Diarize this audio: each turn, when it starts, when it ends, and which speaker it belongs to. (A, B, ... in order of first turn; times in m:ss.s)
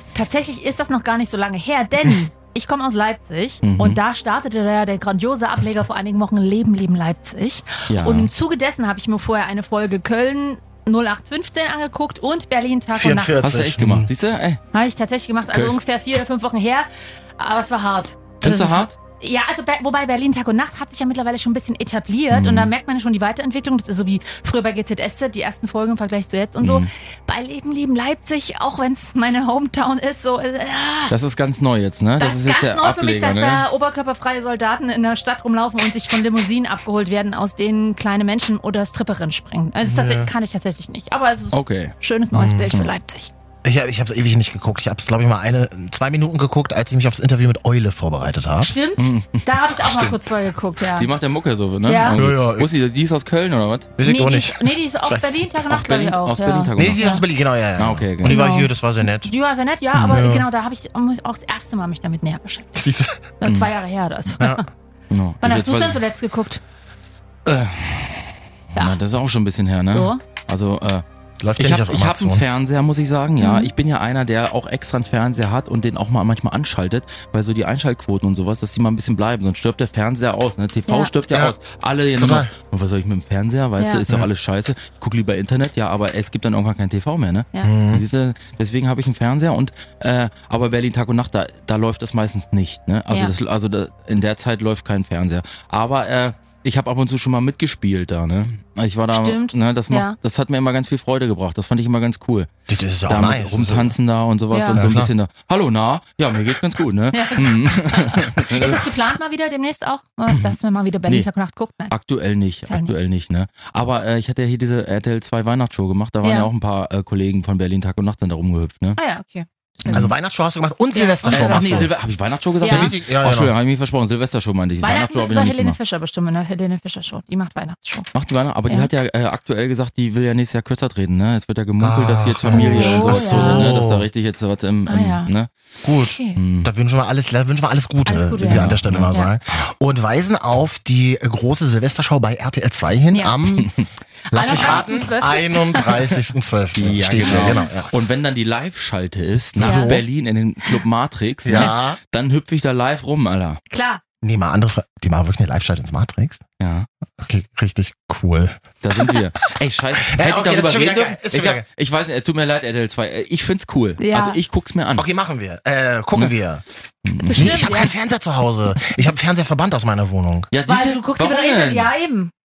0:00.1-0:13.3 A
0:03.6-0:04.0 B
0:07.9-0:08.3 B
0:12.9-0:14.1 C
0:13.4-0:14.6 B
0:14.7-0:31.1 A
0:15.5-0:15.8 B
0:18.4-0:18.9 B
0:22.3-0:22.7 B
0:26.6-0:26.9 B
0:31.1-0:33.6 B
0:32.2-0:43.3 A
0:39.8-0:40.3 C
0:41.5-0:41.9 B
0:42.3-0:42.7 C
0:43.6-0:48.7 C
0:48.6-0:51.1 A
0:49.0-0:50.1 B
0:51.0-0:53.9 B
0:51.8-0:52.2 A
0:52.1-0:52.7 C
0:54.0-0:55.4 C
0:54.0-0:57.2 A
0:55.7-0:57.2 B
0:56.8-0:59.3 C
0:57.8-0:58.4 B
0:58.2-1:02.7 A
0:59.9-1:00.4 C
1:02.8-1:03.2 C
1:03.4-1:04.7 A
1:03.4-1:03.7 B
1:04.4-1:04.6 C
1:05.1-1:06.0 B
1:05.4-1:06.6 A
1:07.4-1:11.0 B
1:09.9-1:10.2 A
1:11.4-1:12.4 C
1:11.6-1:42.5 B
1:13.4-1:13.7 A
1:22.1-1:22.5 C
1:23.8-1:24.0 A
1:27.6-1:28.0 C
1:39.1-1:40.2 A
1:42.7-1:44.0 C
1:43.1-1:48.9 B
1:44.5-1:44.8 A
1:44.7-1:45.1 C
1:47.1-1:51.9 A
1:50.3-1:51.3 B
1:51.9-1:59.0 B
1:56.2-1:56.5 A
1:59.0-2:00.1 A
1:59.9-2:01.9 C
2:00.9-2:01.9 A
2:01.3-2:05.8 B
2:02.6-2:03.0 A
2:02.6-2:03.5 C
2:04.8-2:08.1 A
2:08.1-2:15.5 B
2:11.8-2:14.0 C
2:12.5-2:13.7 A
2:14.9-2:15.3 A
2:15.8-2:23.7 C
2:16.0-2:16.4 A
2:16.4-2:16.7 B
2:18.0-2:19.3 A
2:18.4-2:19.1 B
2:23.1-2:23.4 A
2:23.6-2:23.9 B
2:24.3-2:26.2 A
2:24.3-2:27.9 C
2:26.8-2:33.6 B
2:27.2-2:27.7 A
2:29.6-2:30.0 C
2:29.6-2:29.9 A
2:31.4-2:32.0 C
2:33.7-2:34.0 A
2:34.2-2:36.4 C
2:36.6-2:36.9 B
2:37.2-2:39.2 C
2:38.8-2:45.0 B
2:40.0-2:41.6 C
2:44.0-2:44.4 A
2:45.0-2:46.6 C
2:47.0-2:47.7 B
2:47.2-2:47.9 A
2:47.3-2:50.5 C
2:50.5-2:51.9 B
2:50.6-2:52.3 A